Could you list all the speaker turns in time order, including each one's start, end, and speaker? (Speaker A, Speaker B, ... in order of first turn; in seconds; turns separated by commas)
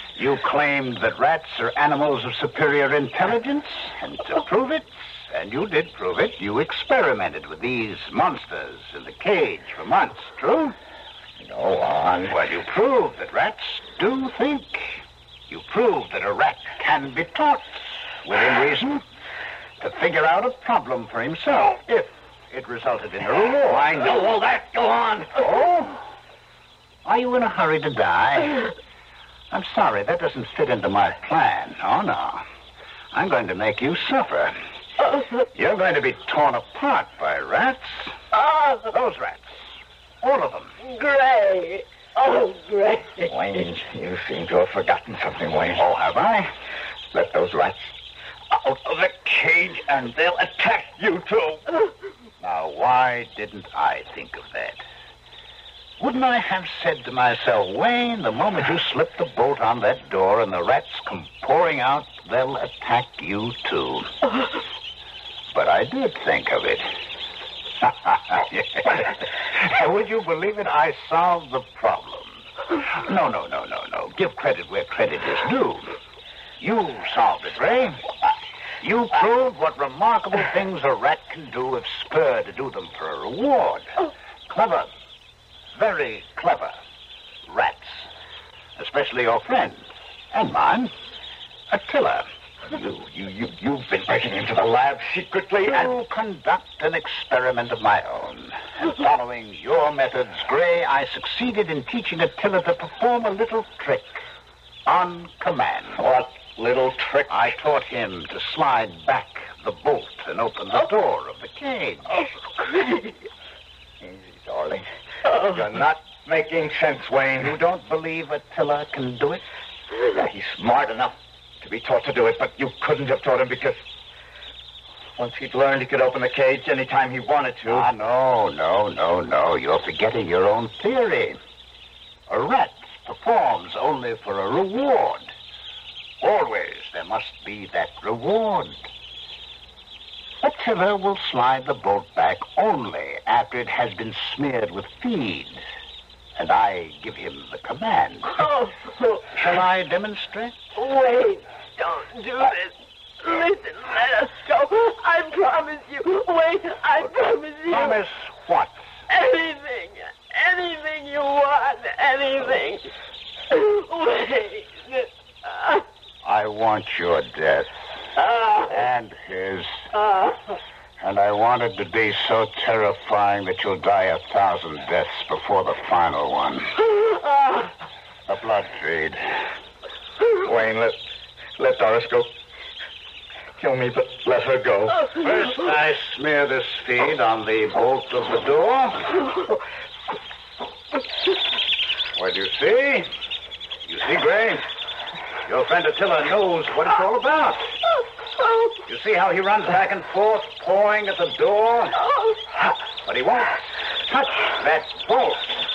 Speaker A: 0.1-10.7, Speaker B: 11.4-12.4, Speaker A: 12.3-19.0, Speaker A: 19.8-26.0, Speaker B: 24.9-25.2, Speaker A: 27.0-28.7, Speaker A: 29.5-32.4, Speaker A: 33.1-34.5, Speaker A: 35.5-38.1, Speaker C: 38.3-38.9, Speaker A: 38.9-39.6, Speaker A: 40.2-40.8, Speaker C: 40.8-43.3, Speaker B: 43.3-45.8, Speaker A: 45.7-46.5, Speaker B: 47.1-47.9, Speaker B: 48.6-49.0, Speaker A: 48.7-50.6, Speaker B: 50.2-51.6, Speaker A: 52.4-54.8, Speaker A: 56.0-64.1, Speaker A: 65.5-66.9, Speaker A: 67.8-76.0, Speaker A: 76.6-78.0, Speaker A: 78.8-84.9, Speaker A: 85.7-86.8, Speaker A: 87.5-88.1, Speaker A: 88.8-90.9, Speaker A: 91.7-93.6, Speaker B: 93.3-95.9, Speaker A: 95.7-104.2, Speaker A: 104.8-106.0, Speaker B: 105.9-107.6, Speaker A: 107.3-112.2, Speaker C: 112.1-113.2, Speaker B: 114.0-117.6, Speaker C: 115.2-115.6, Speaker A: 117.4-119.4, Speaker B: 120.1-123.8, Speaker B: 125.2-127.9, Speaker A: 127.7-131.4, Speaker A: 132.3-135.3, Speaker A: 136.2-138.9, Speaker A: 140.4-145.6, Speaker A: 146.3-148.4, Speaker C: 148.3-149.3, Speaker A: 149.3-150.6, Speaker C: 150.7-158.0, Speaker A: 157.7-158.8, Speaker C: 159.1-162.9, Speaker C: 163.5-165.8, Speaker A: 166.2-167.7, Speaker A: 168.6-169.8, Speaker A: 171.0-176.8, Speaker A: 178.3-179.2, Speaker B: 180.4-181.0, Speaker B: 181.6-182.3, Speaker B: 183.6-185.1, Speaker A: 185.1-189.2, Speaker A: 192.1-193.1, Speaker A: 193.8-194.7, Speaker A: 195.4-197.7, Speaker A: 198.8-202.0, Speaker C: 201.9-202.4, Speaker A: 203.0-205.6